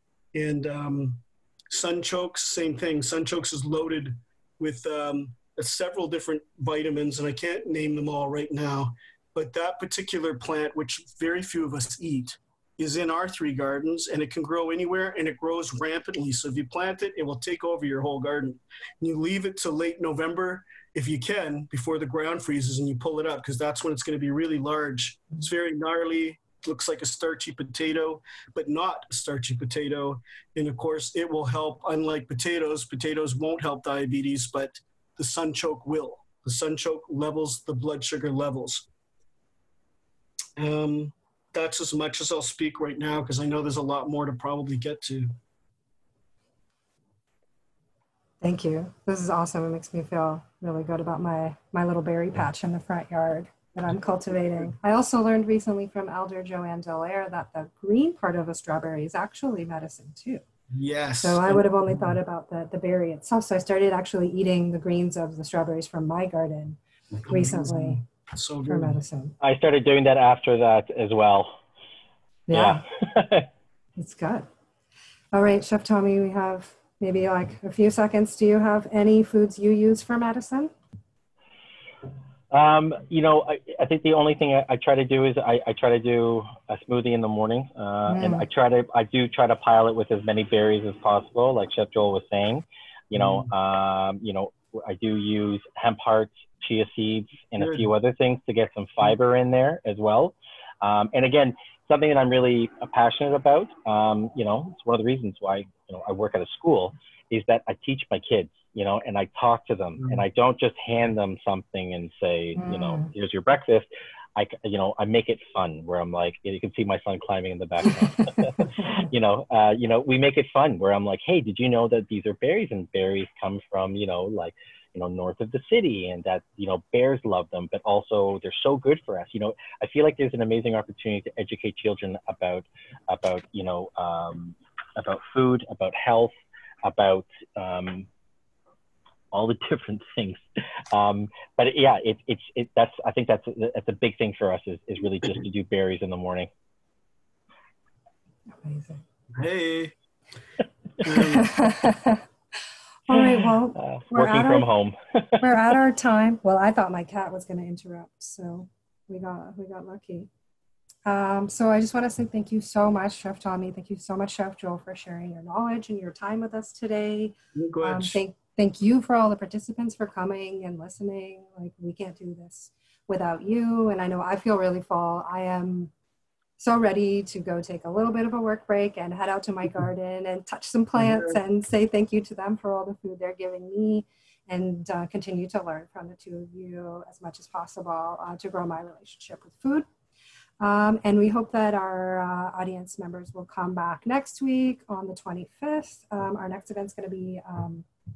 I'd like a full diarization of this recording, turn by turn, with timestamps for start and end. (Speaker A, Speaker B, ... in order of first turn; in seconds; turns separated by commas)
Speaker A: 0.3-38.9, Speaker A: 40.6-45.3, Speaker B: 48.4-60.4, Speaker A: 60.7-62.1, Speaker B: 61.2-68.0, Speaker A: 67.2-69.0, Speaker B: 68.7-69.3, Speaker C: 69.4-71.6, Speaker B: 72.5-72.8, Speaker C: 72.5-73.5, Speaker B: 74.0-74.5, Speaker B: 75.3-80.7, Speaker C: 82.5-136.3, Speaker B: 88.1-88.4, Speaker A: 93.2-93.5, Speaker A: 97.6-97.9, Speaker B: 112.6-113.1, Speaker B: 117.9-118.9, Speaker C: 136.8-138.1, Speaker C: 139.3-146.5, Speaker B: 148.6-149.0, Speaker A: 149.3-149.9, Speaker A: 151.0-151.5, Speaker B: 151.1-152.2, Speaker B: 153.1-154.7, Speaker C: 153.2-155.5, Speaker B: 155.4-160.3, Speaker B: 161.1-175.9, Speaker A: 167.6-168.2, Speaker B: 176.6-189.9, Speaker A: 181.0-181.4, Speaker B: 190.6-197.9